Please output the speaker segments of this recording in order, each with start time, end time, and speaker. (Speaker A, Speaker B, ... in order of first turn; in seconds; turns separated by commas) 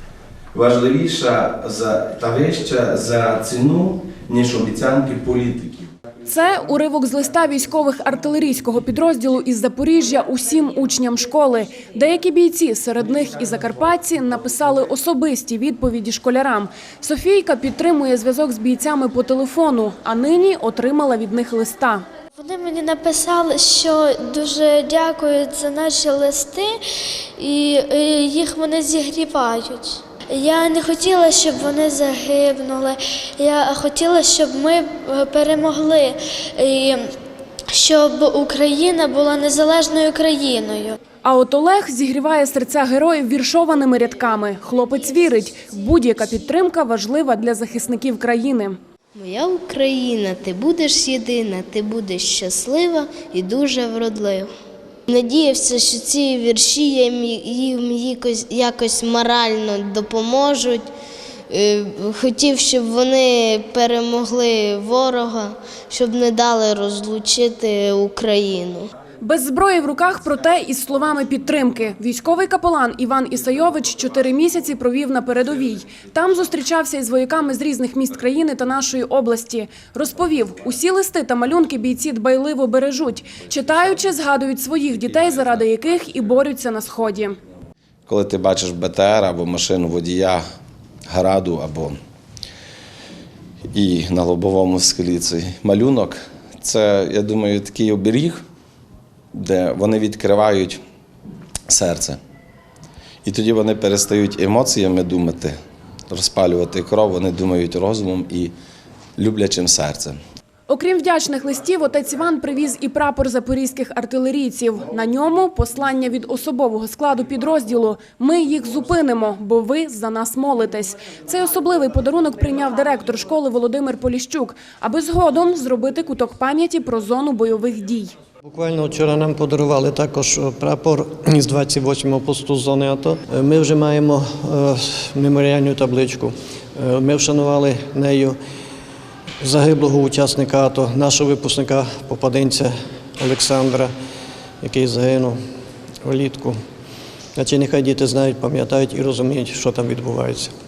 Speaker A: 0.5-5.9, Speaker B: 6.2-22.0, Speaker C: 22.4-26.7, Speaker C: 27.4-37.0, Speaker C: 37.7-41.0, Speaker B: 41.2-48.8, Speaker D: 49.1-54.5, Speaker D: 55.1-60.9, Speaker D: 61.5-68.9, Speaker B: 69.2-87.4, Speaker A: 88.1-90.4, Speaker A: 91.1-92.0, Speaker A: 93.7-98.4, Speaker A: 99.3-100.8, Speaker A: 101.7-102.2, Speaker A: 103.2-105.6, Speaker A: 106.1-108.5, Speaker A: 109.2-110.2, Speaker B: 110.7-128.1, Speaker E: 128.5-138.4, Speaker E: 139.4-143.9, Speaker E: 144.6-145.4, Speaker E: 146.0-146.6, Speaker E: 147.4-150.5